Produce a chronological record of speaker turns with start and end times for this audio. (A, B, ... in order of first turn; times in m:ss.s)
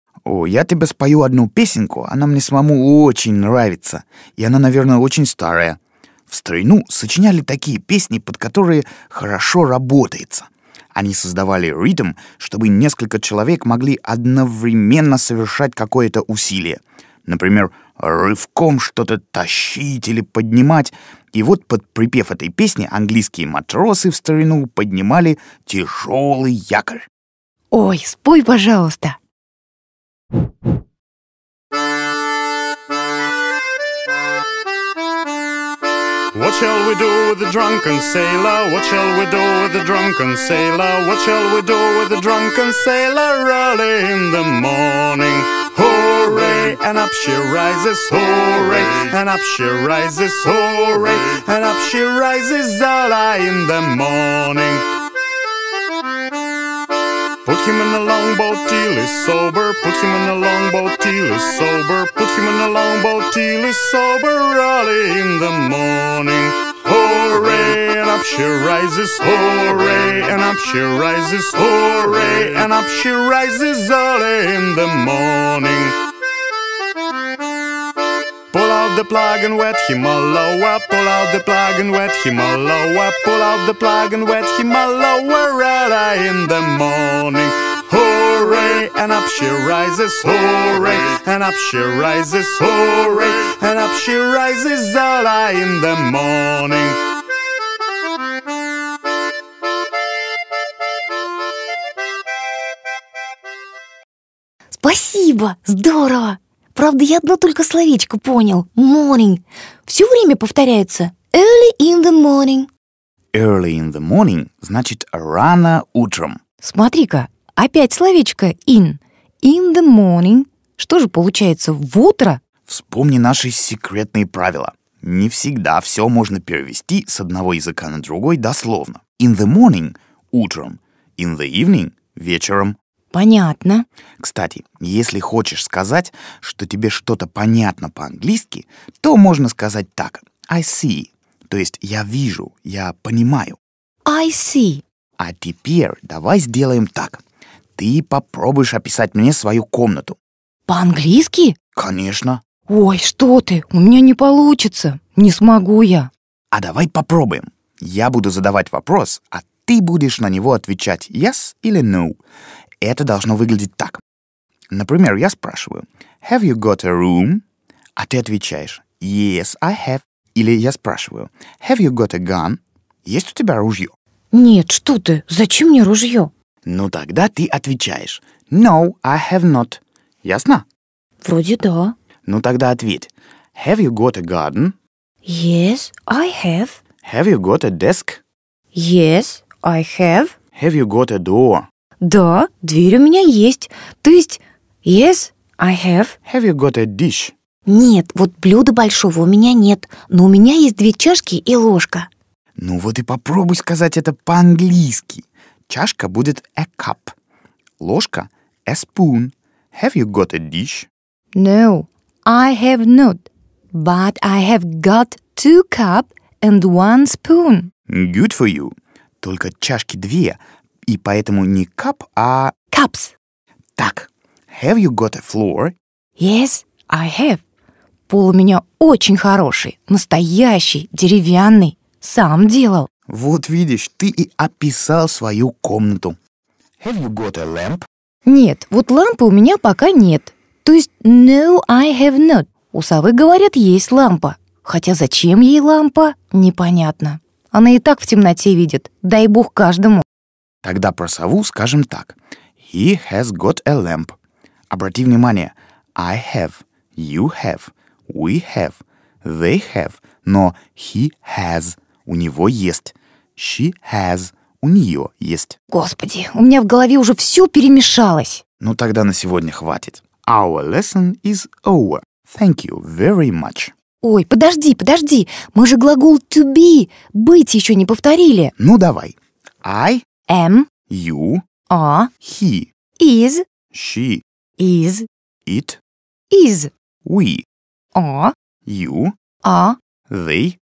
0:00.2-0:27.1 A
0:27.7-0:29.2 B
0:36.3-0:54.9 C
0:57.4-1:16.0 C
1:18.5-1:37.0 C
1:44.7-1:52.7 B
1:53.3-1:56.4 A
1:56.6-2:02.4 B
2:02.7-2:12.8 A
2:13.1-2:13.8 B
2:14.2-2:23.6 A
2:24.0-2:24.8 B
2:25.2-2:27.2 A
2:27.8-2:30.2 A
2:30.7-2:31.6 B
2:31.8-2:32.4 A
2:32.7-2:36.1 B
2:36.5-2:42.2 A
2:42.8-2:44.0 A
2:44.7-2:47.4 A
2:48.0-2:54.0 A
2:54.3-2:56.3 B
2:56.6-3:00.6 A
3:01.2-3:01.9 B
3:02.2-3:04.7 A
3:05.2-3:06.8 B
3:07.0-3:08.2 A
3:08.7-3:10.3 B
3:10.6-3:11.6 A
3:12.0-3:16.2 B
3:16.2-3:17.3 A
3:17.7-3:22.1 B
3:22.6-3:27.1 A
3:27.8-3:30.9 A
3:31.3-3:37.7 B
3:37.9-3:42.5 A
3:42.7-3:43.1 B
3:43.8-3:45.7 A
3:46.2-3:47.4 B
3:48.1-3:52.9 B
3:53.1-3:56.2 A
3:56.8-3:57.8 A
3:58.2-4:10.0 B
4:10.6-4:14.1 A
4:14.7-4:25.6 A
4:25.7-4:28.4 B
4:28.6-4:33.7 A
4:34.0-4:38.5 B
4:38.6-4:40.0 A
4:40.3-4:40.7 B
4:40.9-4:41.4 A
4:41.7-4:42.1 B
4:42.2-4:42.7 A
4:43.0-4:43.4 B
4:43.7-4:44.2 A
4:44.6-4:45.1 B
4:45.4-4:45.8 A
4:46.3-4:46.7 B
4:47.0-4:47.4 A
4:47.9-4:48.3 B
4:48.6-4:49.1 A
4:49.4-4:49.8 B
4:50.1-4:50.6 A